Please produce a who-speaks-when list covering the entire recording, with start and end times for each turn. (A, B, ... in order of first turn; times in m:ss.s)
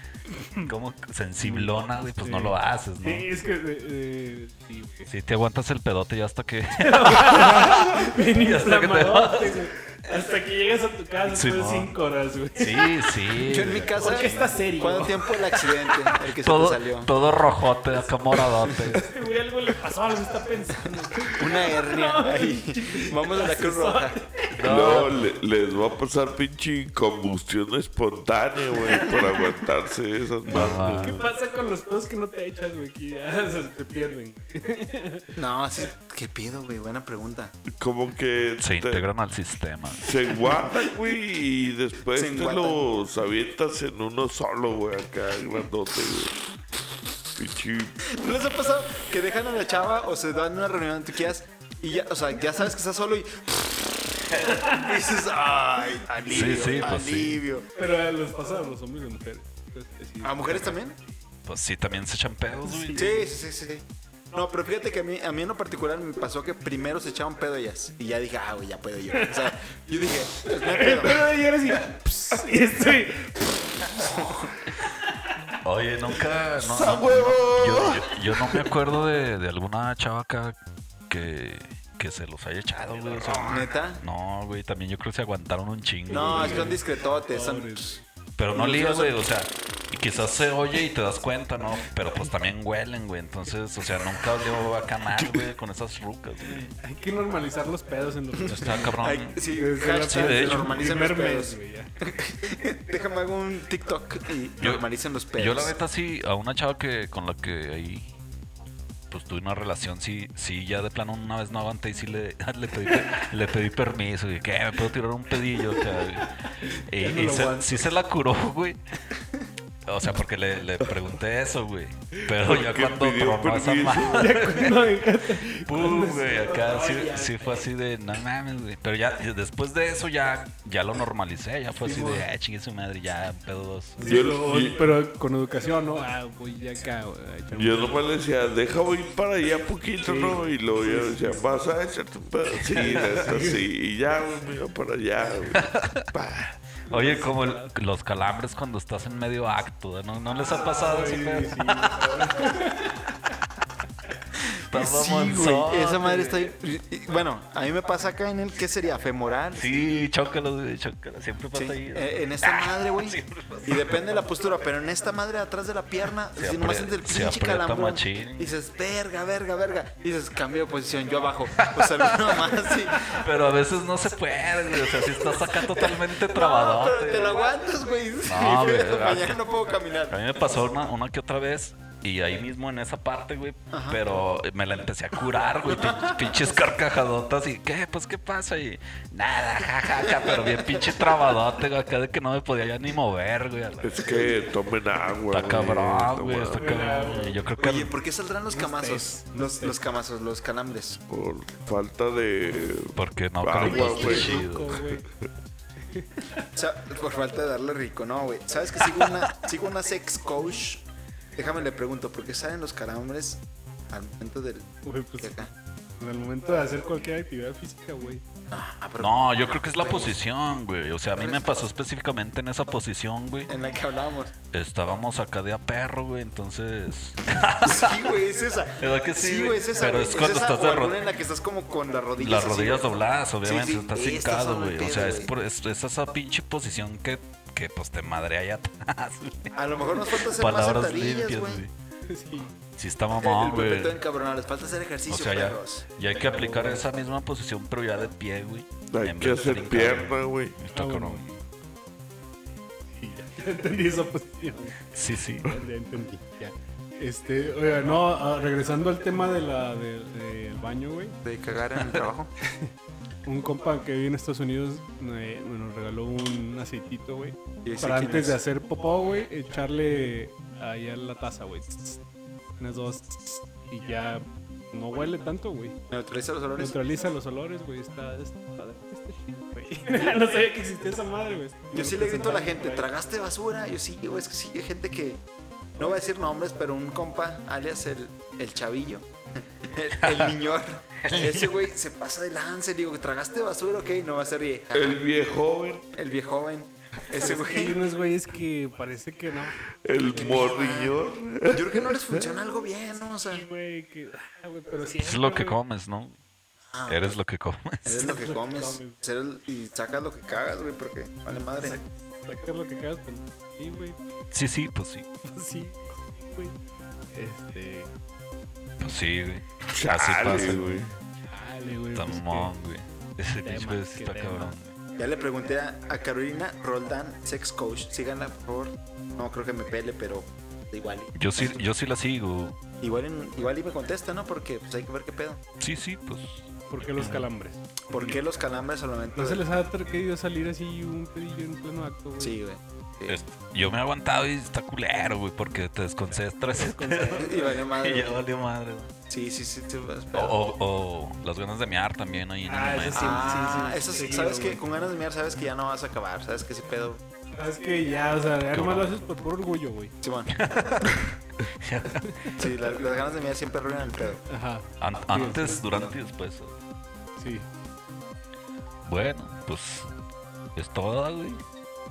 0:00.6-0:03.3 A
0:01.4-0:05.1 B
0:05.1-0:09.6 A
0:06.8-0:13.2 B
0:11.3-0:11.9 A
0:12.6-0:14.6 A
0:13.4-0:17.1 C
0:14.0-0:15.9 B
0:16.4-0:19.1 A
0:18.6-0:19.0 C
0:18.9-0:24.8 B
0:21.3-0:24.2 C
0:24.6-0:25.2 A
0:24.6-0:31.2 D
0:28.7-0:29.6 B
0:30.5-0:31.2 A
0:30.5-0:35.3 B
0:35.4-0:37.5 C
0:37.8-0:39.0 D
0:38.6-0:40.1 A
0:40.0-0:46.4 D
0:42.2-0:42.8 C
0:47.4-0:48.0 D
0:48.2-0:53.7 C
0:54.3-0:57.7 C
0:56.3-0:57.4 A
0:57.8-1:00.8 B
1:00.2-1:01.0 C
1:01.5-1:03.2 A
1:02.6-1:03.2 B
1:03.0-1:11.3 C
1:09.2-1:09.5 B
1:10.4-1:13.5 B
1:15.6-1:20.6 A
1:16.6-1:18.0 D
1:21.1-1:26.8 A
1:23.3-1:24.0 C
1:26.1-1:28.0 B
1:26.1-1:28.0 C
1:28.4-1:36.6 A
1:28.5-1:29.2 C
1:35.2-1:35.5 D
1:36.5-1:39.0 B
1:38.4-1:45.8 C
1:38.5-1:39.4 A
1:39.5-1:41.9 B
1:40.0-1:40.9 A
1:44.6-1:44.8 A
1:45.4-1:48.1 A
1:49.1-1:58.8 A
1:56.6-1:57.9 B
1:59.9-2:04.9 A
2:02.3-2:04.3 D
2:04.1-2:07.6 B
2:05.6-2:14.1 A
2:11.8-2:12.2 B
2:14.0-2:18.0 B
2:14.0-2:14.9 D
2:17.5-2:26.5 D
2:20.0-2:21.5 B
2:22.7-2:23.2 A
2:22.8-2:23.6 B
2:25.6-2:26.0 A
2:26.9-2:27.7 B
2:26.9-2:32.5 A
2:30.4-2:33.2 B
2:34.5-2:36.5 A
2:34.7-2:35.7 D
2:35.6-2:39.8 C
2:39.6-2:44.2 A
2:41.5-2:53.1 C
2:46.3-2:48.6 A
2:51.6-2:57.4 A
2:54.7-3:00.3 C
2:58.2-2:59.4 A
3:00.1-3:14.1 A
3:03.7-3:04.1 C
3:05.7-3:06.3 C
3:10.1-3:11.1 C
3:13.8-3:16.7 D
3:15.3-3:17.9 A
3:16.6-3:17.4 B
3:17.6-3:21.0 C
3:18.5-3:19.8 B
3:21.1-3:24.5 D
3:23.0-3:24.8 A
3:23.6-3:25.0 B
3:23.7-3:24.3 C
3:25.0-3:25.3 D
3:25.8-3:26.5 B
3:26.6-3:30.8 C
3:31.4-3:35.5 C
3:34.8-3:38.2 B
3:38.5-3:40.2 C
3:39.0-3:43.5 A
3:41.2-3:41.6 C
3:43.5-3:44.3 C
3:44.5-3:48.0 A
3:47.6-3:52.9 C
3:48.8-3:51.0 A
3:52.2-3:59.6 A
3:53.4-3:55.3 C
3:59.6-4:01.6 C
4:00.1-4:01.7 A
4:02.1-4:02.6 B
4:02.8-4:04.0 A
4:03.2-4:05.9 C
4:05.1-4:11.3 A
4:06.2-4:07.0 B
4:08.9-4:10.6 D
4:10.7-4:11.4 B
4:12.9-4:21.2 B
4:14.9-4:15.6 A
4:21.2-4:22.3 C
4:23.2-4:32.0 B
4:27.6-4:28.4 C
4:32.6-4:35.8 B
4:35.9-4:36.8 C
4:36.6-4:42.9 B
4:41.7-4:45.2 C
4:45.8-4:55.0 C
4:50.0-4:50.4 A
4:51.0-4:51.6 A
4:54.7-4:55.9 D
4:55.9-4:57.8 C
4:57.2-5:00.5 B
4:59.8-5:02.3 D
5:00.1-5:01.0 C
5:01.5-5:03.5 C
5:03.0-5:05.6 B
5:05.0-5:06.2 A
5:06.7-5:07.1 C
5:06.9-5:08.1 A
5:07.8-5:11.8 C
5:08.0-5:09.0 B
5:11.6-5:14.0 B
5:14.3-5:15.1 A
5:15.2-5:16.6 B
5:17.1-5:17.9 B
5:18.8-5:20.8 A
5:19.7-5:20.9 D
5:21.3-5:22.5 B
5:21.9-5:24.8 A
5:23.4-5:24.5 B
5:25.0-5:31.7 C
5:31.2-5:32.6 A
5:32.8-5:35.4 C
5:35.6-5:37.3 A
5:36.7-5:38.2 B
5:37.9-5:39.4 C
5:39.2-5:42.4 B
5:42.2-5:43.2 C
5:43.1-5:48.9 A
5:46.5-5:47.6 B
5:47.1-5:48.2 C
5:49.1-5:50.4 C
5:50.1-5:53.8 A
5:52.5-5:54.6 B
5:52.9-5:57.0 C
5:57.4-5:59.9 B
5:58.5-5:59.0 A
6:00.0-6:00.3 C
6:00.3-6:01.1 A
6:01.6-6:02.4 A
6:02.0-6:02.4 B
6:02.4-6:04.2 C
6:04.3-6:05.8 B
6:04.8-6:06.6 A
6:07.2-6:07.5 B
6:08.8-6:09.9 A
6:10.6-6:11.4 A